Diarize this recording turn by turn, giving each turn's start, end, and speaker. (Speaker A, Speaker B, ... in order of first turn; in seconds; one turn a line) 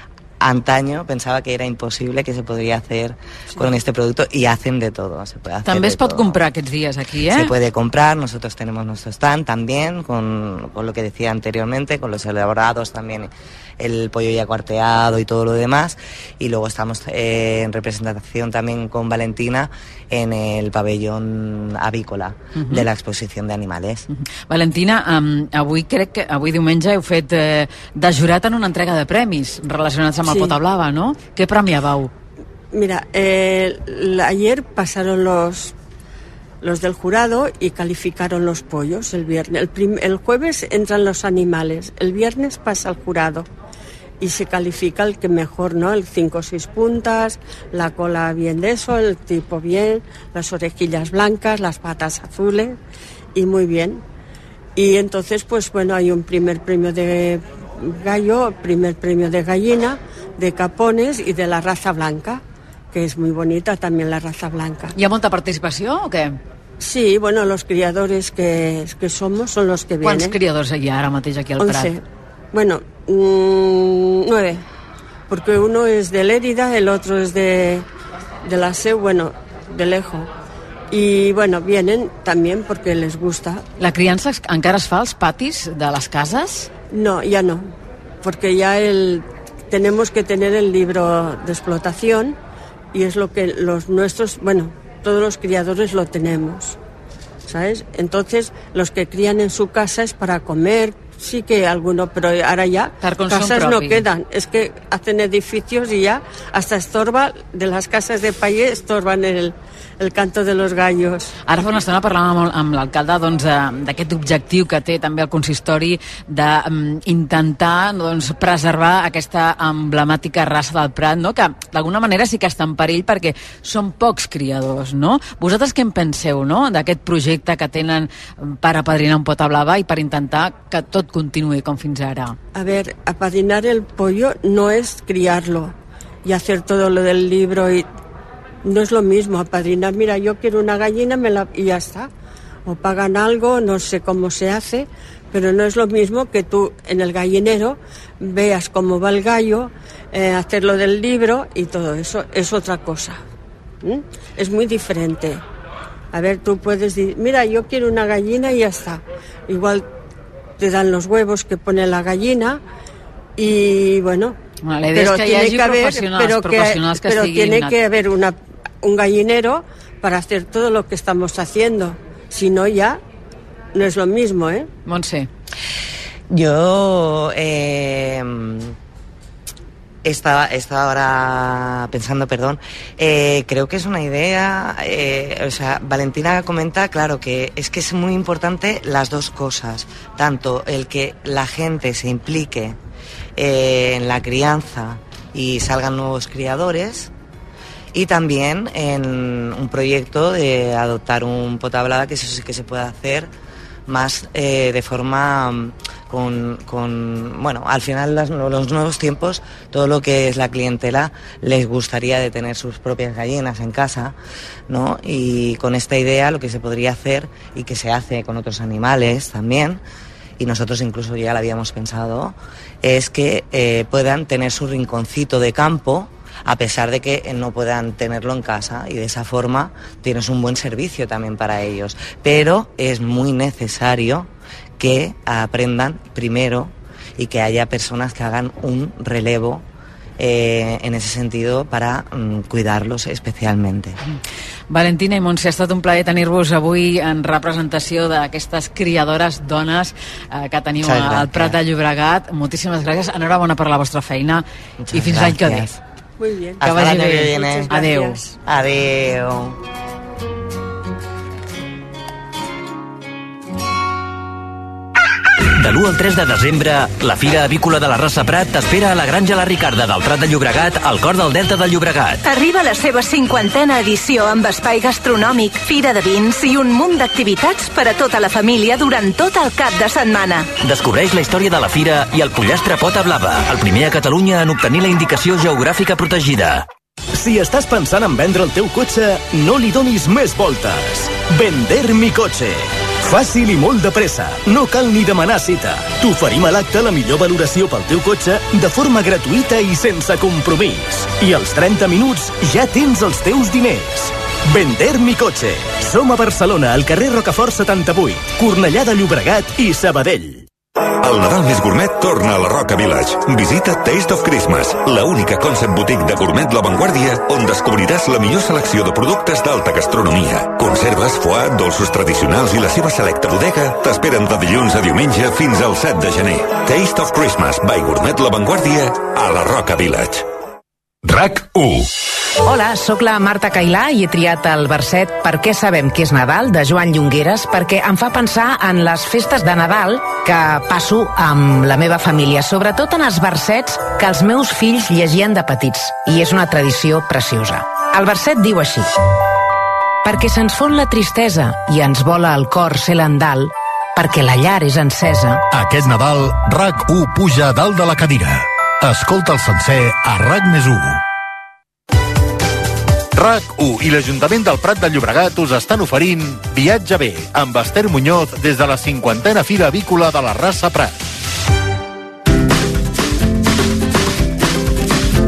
Speaker A: 0.4-6.4
Speaker B: 5.7-7.5
Speaker A: 7.3-24.0
Speaker B: 22.6-22.9
Speaker B: 24.5-32.1
Speaker C: 30.3-30.6
Speaker C: 32.7-35.7
Speaker C: 36.6-43.5
Speaker C: 44.2-52.8
Speaker C: 53.4-54.0
Speaker C: 54.8-64.9
Speaker B: 65.0-66.4
Speaker C: 66.8-70.4
Speaker B: 70.0-71.9
Speaker C: 71.6-74.6
Speaker C: 75.3-77.9
Speaker C: 78.4-80.3
Speaker C: 80.9-83.6
Speaker B: 83.8-86.7
Speaker C: 86.9-92.4
Speaker C: 92.9-96.8
Speaker C: 97.5-111.3
Speaker B: 103.0-104.0
Speaker B: 111.5-132.4
Speaker C: 132.5-137.9
Speaker C: 138.6-142.1
Speaker C: 142.7-153.2
Speaker C: 153.8-155.4
Speaker C: 156.1-159.9
Speaker C: 160.6-162.6
Speaker C: 163.4-164.4
Speaker B: 164.6-167.8
Speaker C: 164.9-173.0
Speaker C: 173.7-174.7
Speaker B: 174.8-175.3
Speaker A: 176.3-178.7
Speaker A: 180.0-192.8
Speaker A: 193.4-197.1
Speaker A: 197.9-203.3
Speaker A: 203.9-214.2
Speaker A: 214.7-219.8
Speaker A: 220.4-239.6
Speaker A: 240.2-244.0
Speaker B: 244.7-255.7
Speaker A: 250.8-251.6
Speaker A: 254.8-255.8
Speaker C: 256.2-258.4
Speaker A: 256.6-257.7
Speaker B: 256.6-258.2
Speaker A: 258.4-259.6
Speaker D: 265.6-272.2
Speaker E: 272.2-280.5
Speaker D: 280.6-286.7
Speaker F: 287.1-310.5
Speaker G: 311.0-330.3
Speaker G: 331.0-331.9
Speaker H: 332.4-348.9
Speaker H: 350.0-355.4
Speaker I: 355.5-361.0
Speaker I: 363.2-371.0